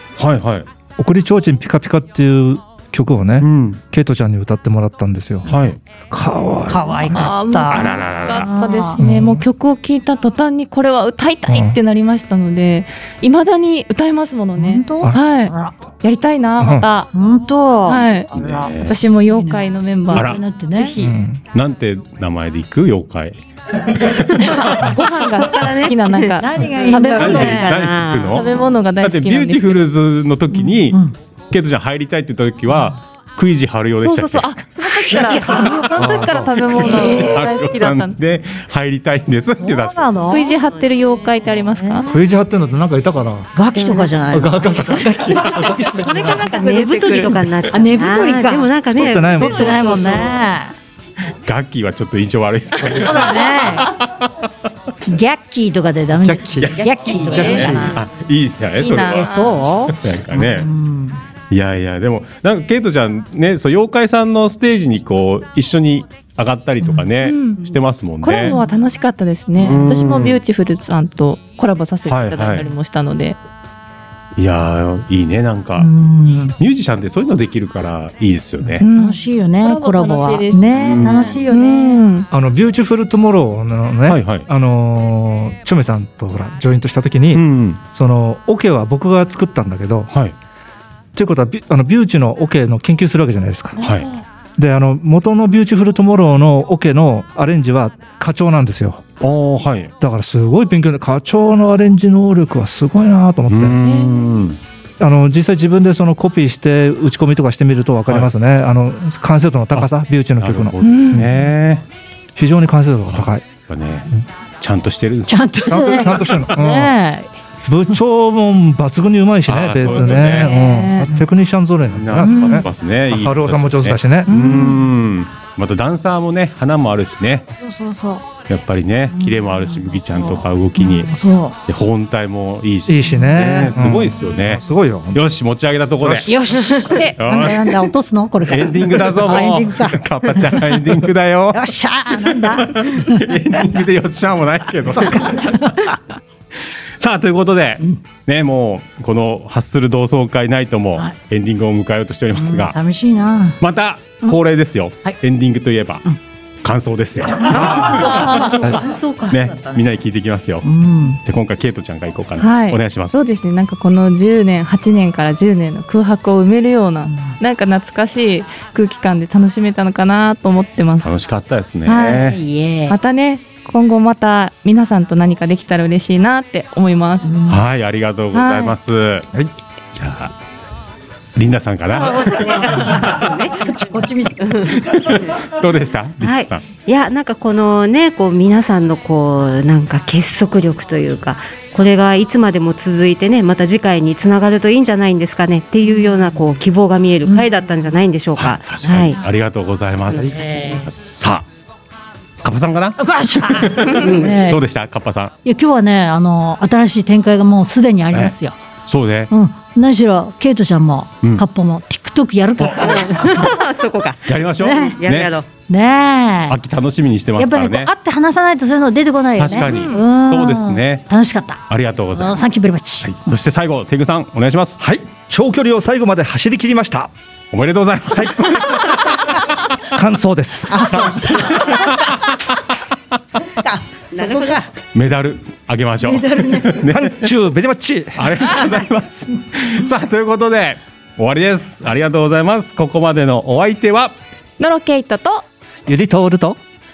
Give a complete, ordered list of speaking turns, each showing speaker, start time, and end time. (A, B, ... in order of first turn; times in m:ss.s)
0:00.2-0:00.7 A
0:01.0-0:07.4 B
0:03.4-0:03.8 A
0:05.5-0:05.8 A
0:06.7-0:09.0 C
0:07.1-0:17.1 D
0:07.7-0:08.5 A
0:09.0-0:09.4 B
0:11.5-0:11.8 B
0:14.6-0:15.8 C
0:16.6-0:16.9 B
0:17.1-0:21.0 C
0:17.8-0:21.2 D
0:18.3-0:19.0 A
0:20.1-0:20.4 A
0:21.0-0:21.4 B
0:21.5-0:24.8 A
0:24.4-0:24.9 C
0:24.6-0:27.7 D
0:25.4-0:28.5 E
0:26.4-0:27.7 C
0:27.1-0:28.5 A
0:28.3-0:29.8 D
0:29.0-0:34.6 A
0:30.5-0:31.1 C
0:34.0-0:38.2 D
0:34.8-0:36.2 C
0:35.4-0:40.3 A
0:36.0-0:36.5 B
0:36.8-0:37.4 C
0:39.6-0:40.6 C
0:40.3-0:42.1 D
0:40.5-0:41.5 E
0:41.7-0:42.2 C
0:42.1-0:43.5 B
0:43.6-0:45.7 C
0:43.8-0:44.1 E
0:44.3-0:46.4 B
0:45.4-0:50.5 E
0:46.4-0:47.4 D
0:47.1-0:50.7 C
0:48.9-0:50.0 B
0:51.4-0:54.5 A
0:52.9-0:54.0 C
0:55.1-0:58.0 C
0:56.2-0:58.0 B
0:56.6-0:59.4 A
0:57.3-0:57.7 D
0:58.8-0:59.6 D
0:59.0-1:01.2 C
0:59.9-1:00.7 A
1:01.5-1:08.6 A
1:06.8-1:07.1 C
1:07.2-1:07.6 D
1:08.2-1:13.4 D
1:09.6-1:10.4 A
1:12.1-1:12.7 A
1:14.4-1:15.9 A
1:15.8-1:16.6 C
1:16.6-1:18.9 A
1:18.8-1:22.3 D
1:18.8-1:22.0 C
1:20.7-1:21.4 A
1:22.3-1:30.1 B
1:24.1-1:24.5 A
1:27.3-1:27.8 A
1:30.1-1:30.4 A
1:31.1-1:33.8 B
1:33.8-1:34.2 D
1:33.8-1:34.1 A
1:34.6-1:39.0 B
1:39.2-1:39.9 A
1:40.0-1:43.8 B
1:43.5-1:44.6 A
1:43.8-1:44.3 D
1:45.0-1:51.4 B
1:49.7-1:51.8 A
1:50.8-1:51.3 D
1:52.4-1:53.4 B
1:53.1-1:56.2 A
1:55.3-1:57.3 C
1:55.7-1:56.9 B
1:57.7-2:04.3 B
1:59.5-2:00.6 A
2:00.1-2:01.1 D
2:00.8-2:01.2 C
2:01.9-2:07.5 A
2:02.2-2:02.6 C
2:04.3-2:04.8 D
2:07.5-2:08.3 C
2:08.5-2:11.1 A
2:09.1-2:11.6 C
2:11.7-2:14.6 A
2:12.9-2:15.2 B
2:13.2-2:13.7 C
2:15.1-2:16.3 A
2:16.2-2:21.0 C
2:16.8-2:17.2 D
2:17.2-2:17.8 A
2:18.5-2:25.6 A
2:21.5-2:23.3 C
2:24.9-2:26.0 C
2:27.0-2:32.8 A
2:32.3-2:33.6 C
2:33.6-2:36.1 A
2:36.6-2:38.5 A
2:37.3-2:39.5 C
2:37.9-2:39.6 E
2:38.2-2:38.5 D
2:39.3-2:40.6 A
2:40.6-2:41.2 C
2:41.2-2:43.2 A
2:42.4-2:51.1 D
2:47.1-2:47.4 C
2:51.0-2:52.4 A
2:51.9-2:52.2 D
2:52.2-2:53.0 C
2:52.9-2:57.3 D
2:57.2-2:57.6 C
2:57.5-2:59.3 A
2:58.3-2:58.8 D
2:59.9-3:00.4 A
3:01.4-3:03.0 A
3:01.9-3:03.7 E
3:02.7-3:04.8 C
3:04.4-3:05.3 E
3:04.8-3:06.6 A
3:06.2-3:19.2 E
3:15.8-3:16.4 C
3:17.3-3:17.7 C
3:18.4-3:21.5 A
3:20.2-3:20.9 C
3:22.4-3:23.0 A
3:23.0-3:24.6 C
3:23.5-3:25.3 A
3:23.9-3:24.4 E
3:25.4-3:28.6 C
3:28.9-3:29.3 A
3:29.3-3:33.6 C
3:32.6-3:33.4 A
3:32.8-3:34.3 E
3:34.3-3:35.3 A
3:34.6-3:35.0 C
3:35.0-3:35.5 E
3:35.7-3:36.6 C
3:36.5-3:37.9 A
3:37.4-3:43.3 C
3:39.4-3:41.0 A
3:39.6-3:40.0 D
3:41.7-3:42.4 A
3:43.0-3:44.8 A
3:44.8-3:47.1 B
3:47.5-3:49.4 A
3:48.2-3:48.6 B
3:49.9-3:51.0 B
3:50.7-3:52.1 C
3:50.9-3:52.4 A
3:53.6-3:54.7 C
3:54.1-3:54.6 E
3:54.9-3:57.3 A
3:56.0-3:56.8 C
3:56.8-3:58.3 B
3:58.2-4:04.2 A
4:04.6-4:05.5 D
4:05.9-4:06.6 B